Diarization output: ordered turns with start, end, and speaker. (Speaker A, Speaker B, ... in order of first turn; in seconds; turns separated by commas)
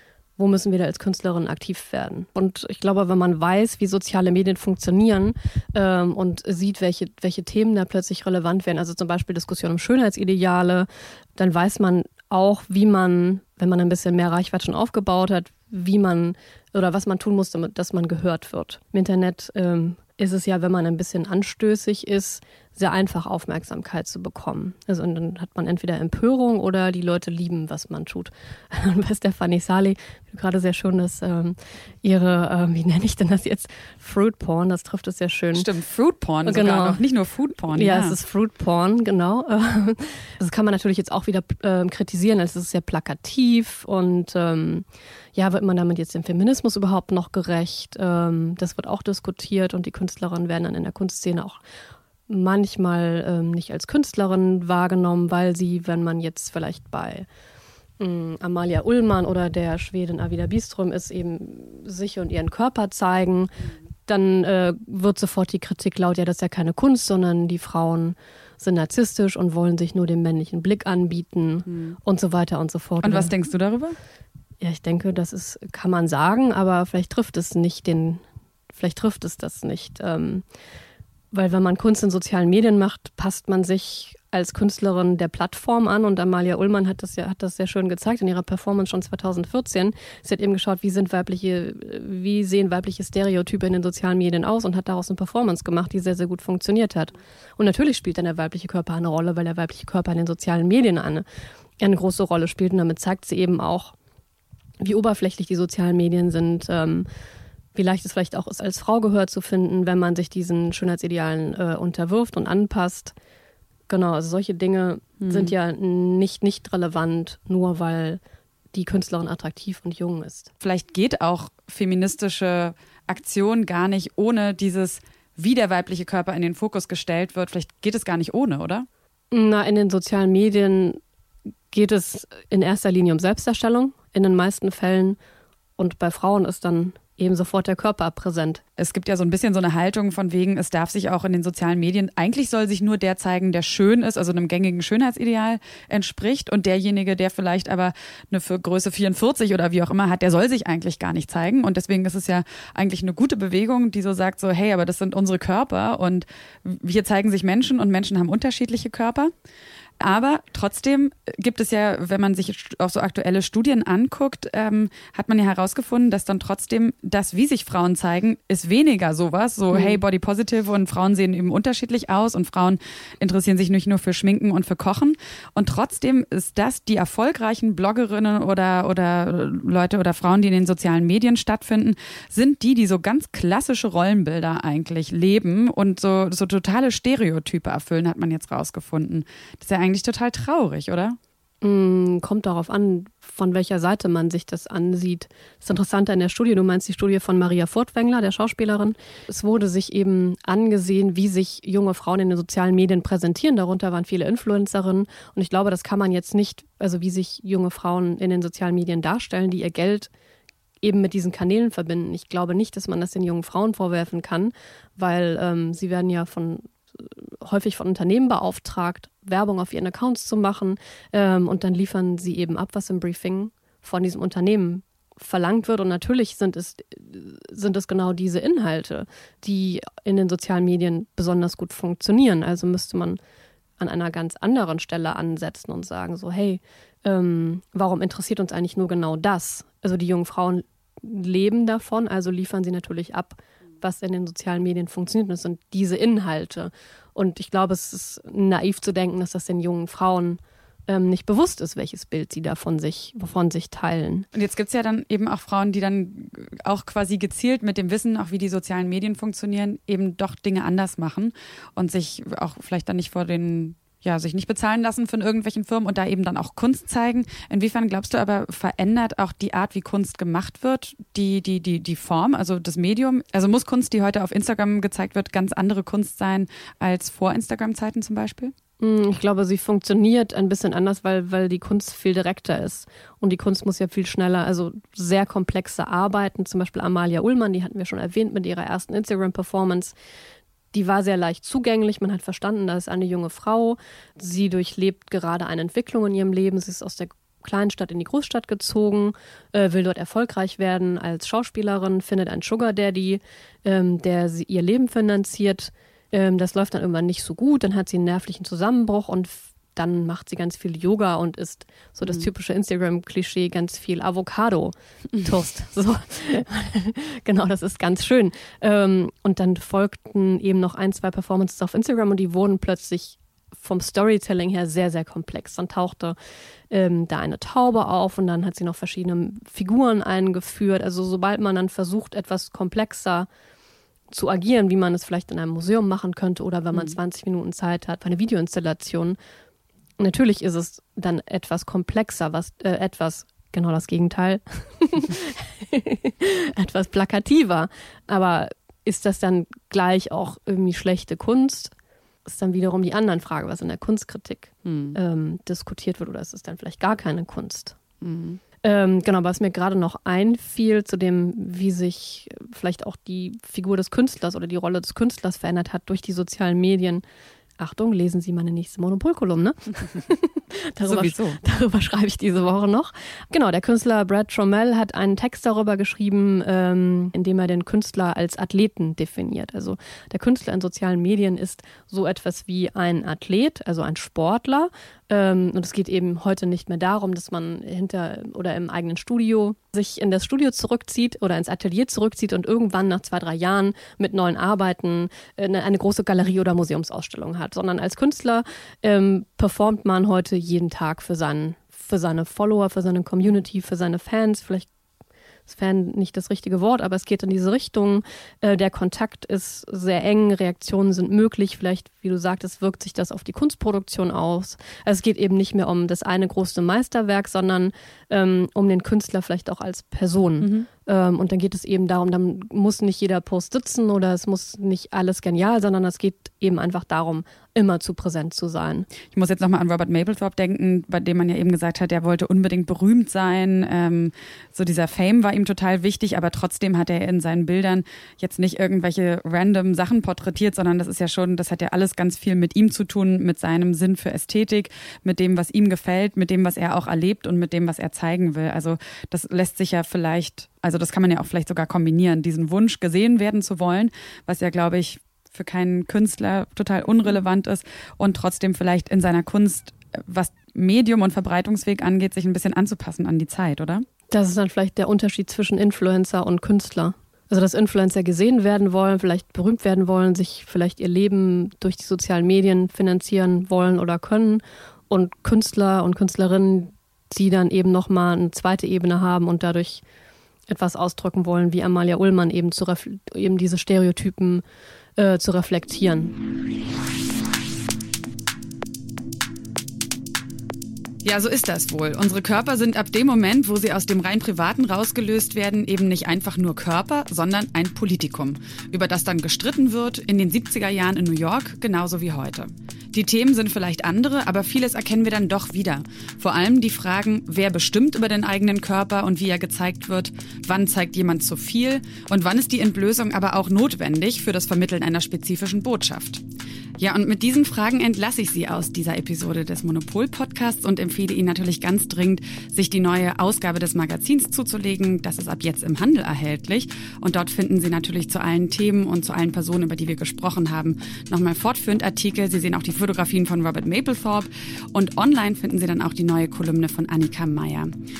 Speaker A: 0.4-35.7, Speaker B: 35.5-38.2, Speaker A: 36.4-37.0, Speaker A: 37.7-51.6, Speaker A: 52.3-57.3, Speaker A: 58.0-63.5, Speaker A: 64.1-73.3, Speaker B: 71.7-71.9, Speaker B: 73.0-74.0, Speaker A: 74.6-80.4, Speaker A: 81.3-101.2, Speaker A: 101.8-103.9, Speaker A: 104.8-107.1, Speaker A: 107.7-113.1, Speaker A: 113.9-118.2, Speaker B: 115.2-115.5, Speaker A: 118.7-120.5, Speaker B: 120.6-128.9, Speaker A: 129.3-131.0, Speaker A: 131.7-135.2, Speaker A: 135.8-138.6, Speaker B: 138.8-159.3, Speaker B: 160.0-191.2, Speaker A: 169.7-170.0, Speaker A: 191.6-210.1, Speaker A: 210.8-233.2, Speaker A: 233.8-254.3, Speaker B: 254.3-278.5, Speaker A: 278.8-289.9, Speaker A: 290.7-326.1, Speaker B: 312.0-312.3, Speaker A: 326.7-333.3, Speaker A: 334.1-339.2, Speaker A: 340.0-351.7, Speaker A: 352.2-357.8, Speaker B: 354.6-355.0, Speaker B: 358.0-358.4, Speaker A: 358.6-367.0, Speaker A: 367.6-404.7, Speaker B: 370.8-371.4, Speaker A: 405.5-428.9, Speaker B: 420.4-420.7, Speaker B: 429.1-463.8, Speaker A: 464.1-479.8, Speaker A: 480.5-484.4, Speaker A: 485.0-486.1, Speaker B: 491.0-516.2, Speaker B: 516.8-537.7